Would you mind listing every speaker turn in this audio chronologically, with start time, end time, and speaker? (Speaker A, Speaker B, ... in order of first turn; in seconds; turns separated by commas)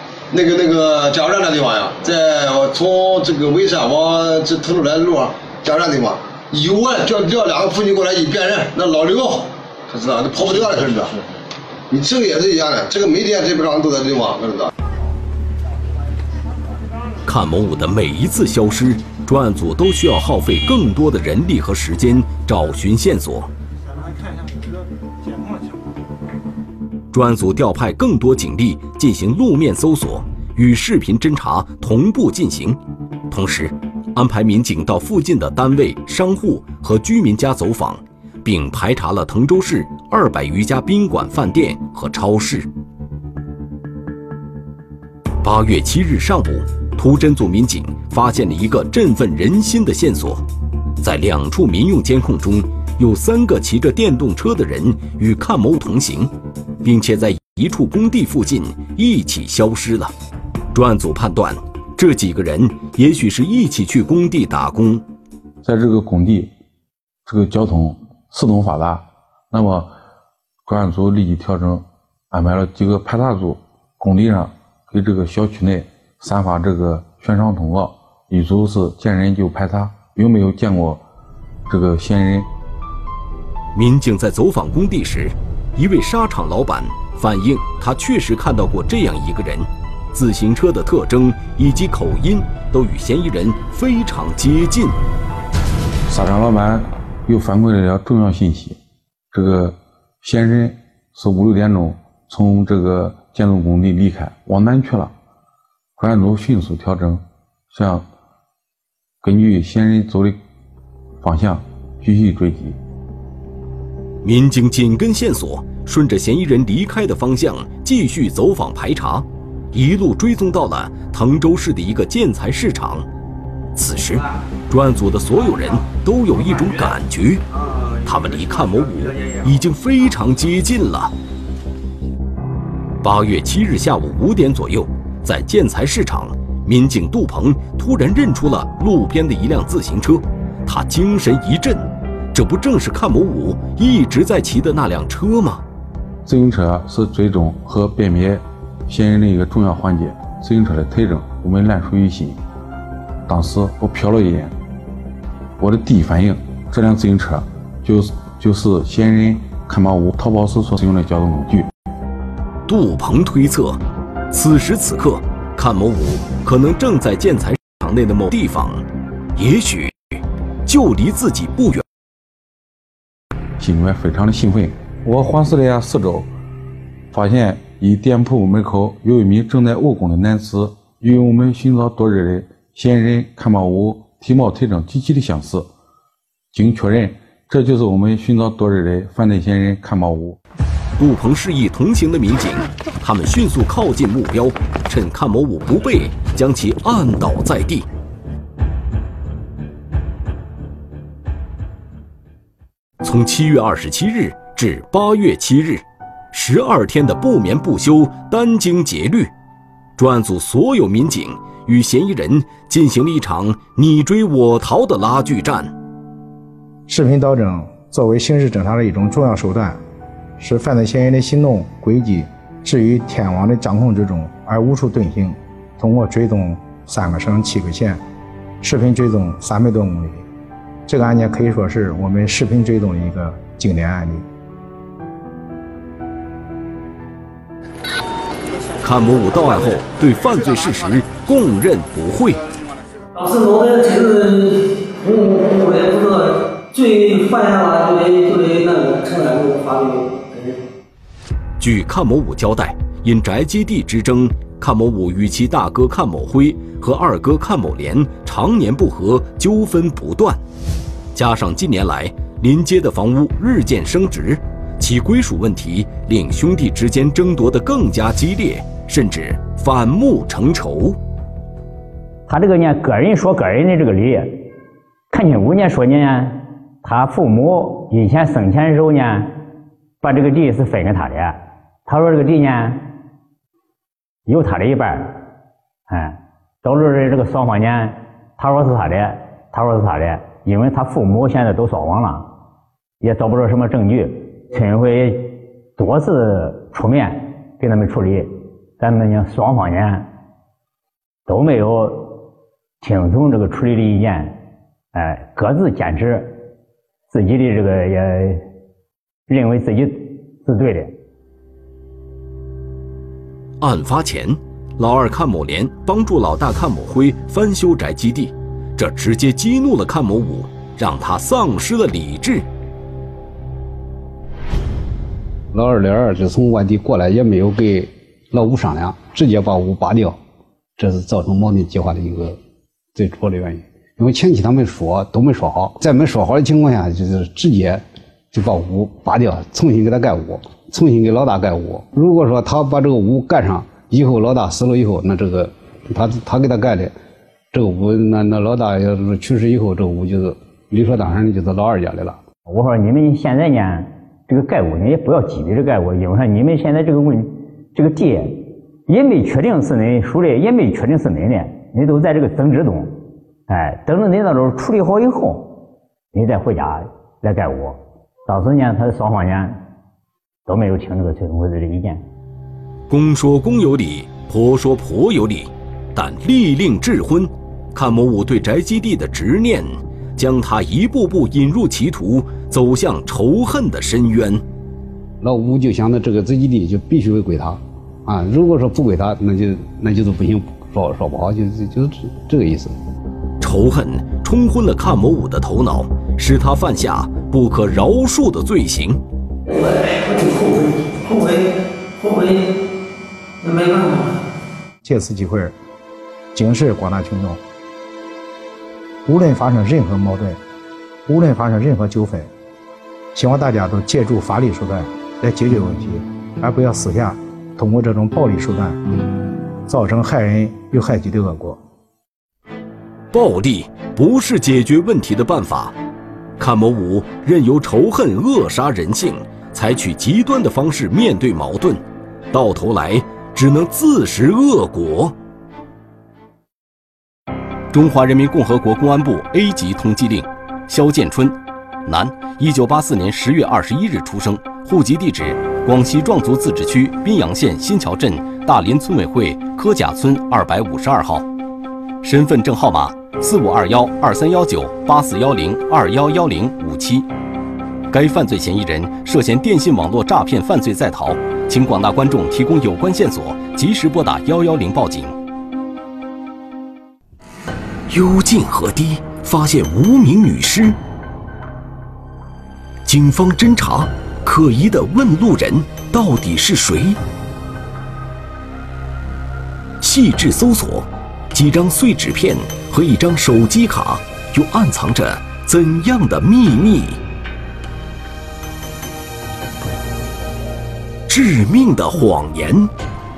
Speaker A: 0.3-11.1, Speaker A: 11.9-14.7, Speaker B: 17.2-23.5, Speaker B: 27.1-32.8, Speaker B: 33.3-42.7, Speaker B: 45.4-50.4, Speaker B: 51.0-60.1, Speaker B: 60.7-65.0, Speaker C: 65.6-66.5, Speaker C: 67.3-69.9, Speaker C: 70.7-81.0, Speaker C: 81.7-82.5, Speaker B: 83.8-95.0, Speaker C: 96.1-98.8, Speaker C: 99.3-105.1, Speaker C: 106.0-108.1, Speaker C: 109.2-110.4, Speaker C: 111.2-112.8, Speaker B: 114.2-123.1, Speaker B: 123.8-127.5, Speaker B: 128.0-131.1, Speaker B: 133.0-145.6, Speaker C: 146.2-152.4, Speaker C: 153.3-154.6, Speaker C: 155.6-161.7, Speaker B: 162.7-168.8, Speaker B: 169.4-171.9, Speaker C: 173.6-176.3, Speaker C: 177.1-185.7, Speaker C: 186.5-190.4, Speaker B: 191.0-197.9, Speaker B: 203.0-209.3, Speaker B: 210.0-215.7, Speaker D: 216.9-219.8, Speaker D: 220.4-228.0, Speaker D: 228.6-230.2, Speaker D: 230.9-234.3, Speaker B: 238.8-242.4, Speaker E: 243.1-250.6, Speaker B: 251.6-260.4, Speaker B: 261.1-271.0, Speaker F: 272.3-274.4, Speaker F: 275.1-279.3, Speaker F: 280.0-282.8, Speaker F: 284.3-285.2, Speaker F: 285.9-292.3, Speaker F: 293.0-300.1, Speaker F: 301.3-302.1, Speaker F: 302.8-304.4, Speaker F: 304.9-306.4, Speaker F: 307.1-308.4, Speaker F: 309.3-310.9, Speaker B: 313.6-322.5, Speaker G: 325.5-330.2, Speaker G: 330.8-332.4, Speaker G: 332.9-346.9, Speaker G: 347.5-352.2, Speaker F: 352.5-363.0, Speaker F: 363.5-365.6, Speaker F: 366.1-369.6, Speaker F: 370.5-372.0, Speaker B: 372.9-384.4, Speaker G: 385.2-392.8, Speaker B: 393.4-399.0, Speaker E: 399.5-402.5, Speaker E: 403.4-404.2, Speaker D: 404.8-405.6, Speaker D: 406.3-407.4, Speaker D: 409.1-410.4, Speaker D: 411.1-412.3, Speaker D: 413.1-418.9, Speaker D: 419.6-421.6, Speaker B: 423.1-425.7, Speaker B: 426.4-435.1, Speaker B: 437.7-451.2, Speaker B: 452.0-457.1, Speaker B: 457.9-465.1, Speaker B: 467.9-470.8, Speaker B: 472.9-477.0, Speaker B: 479.8-487.0, Speaker B: 491.1-492.7